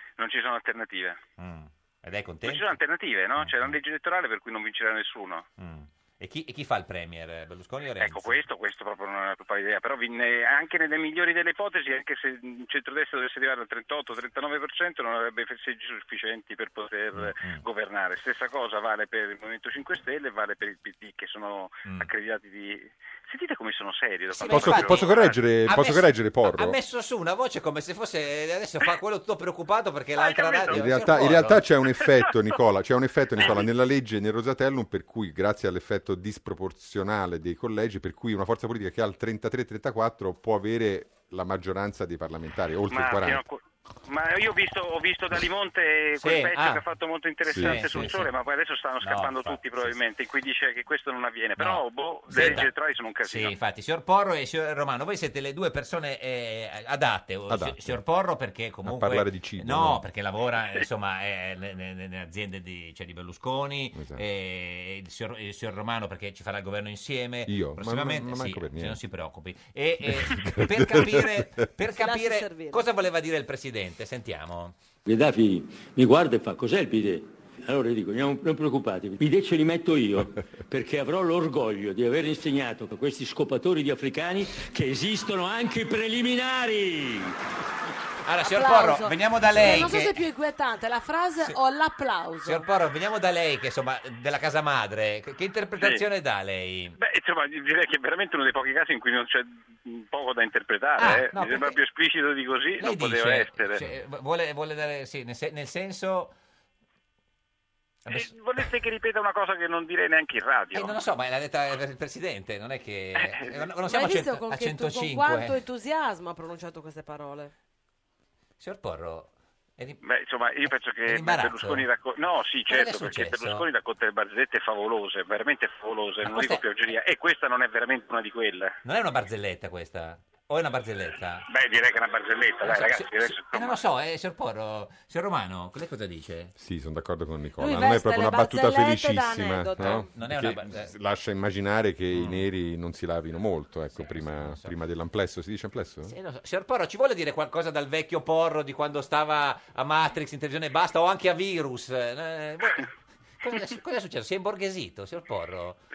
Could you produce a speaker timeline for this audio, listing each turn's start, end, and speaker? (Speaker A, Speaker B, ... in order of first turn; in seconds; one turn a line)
Speaker A: 0.2-1.2
Speaker B: 1.4-2.8
Speaker A: 2.4-5.5
Speaker B: 3.4-3.8
Speaker B: 5.6-8.4
Speaker A: 8.0-25.3
Speaker B: 17.1-17.6
Speaker B: 24.3-31.6
Speaker C: 24.5-26.8
Speaker A: 30.1-30.7
Speaker C: 30.7-43.4
Speaker A: 42.9-53.5
Speaker B: 46.2-46.8
Speaker C: 47.5-47.9
Speaker B: 47.6-48.3
Speaker B: 49.0-50.0
Speaker B: 51.6-52.7
Speaker B: 53.2-74.8
Speaker C: 57.5-58.0
Speaker C: 58.9-60.0
Speaker C: 64.0-64.2
Speaker C: 67.5-69.0
Speaker C: 70.0-71.6
Speaker D: 72.0-72.8
Speaker E: 75.1-87.4
Speaker B: 88.2-90.2
Speaker D: 88.4-92.6
Speaker B: 92.5-97.0
Speaker A: 97.0-103.8
Speaker B: 101.0-101.8
Speaker B: 102.8-106.3
Speaker A: 108.1-110.9
Speaker B: 110.7-115.6
Speaker A: 113.2-113.7
Speaker D: 113.9-117.5
Speaker B: 118.6-120.0
Speaker A: 120.0-128.8
Speaker B: 121.0-121.9
Speaker B: 122.7-123.7
Speaker B: 126.2-126.6
Speaker B: 128.8-131.4
Speaker A: 131.5-133.8
Speaker B: 132.6-136.5
Speaker C: 136.6-146.2
Speaker D: 137.6-140.1
Speaker B: 139.8-140.9
Speaker B: 142.1-142.4
Speaker B: 143.9-144.8
Speaker B: 146.1-155.8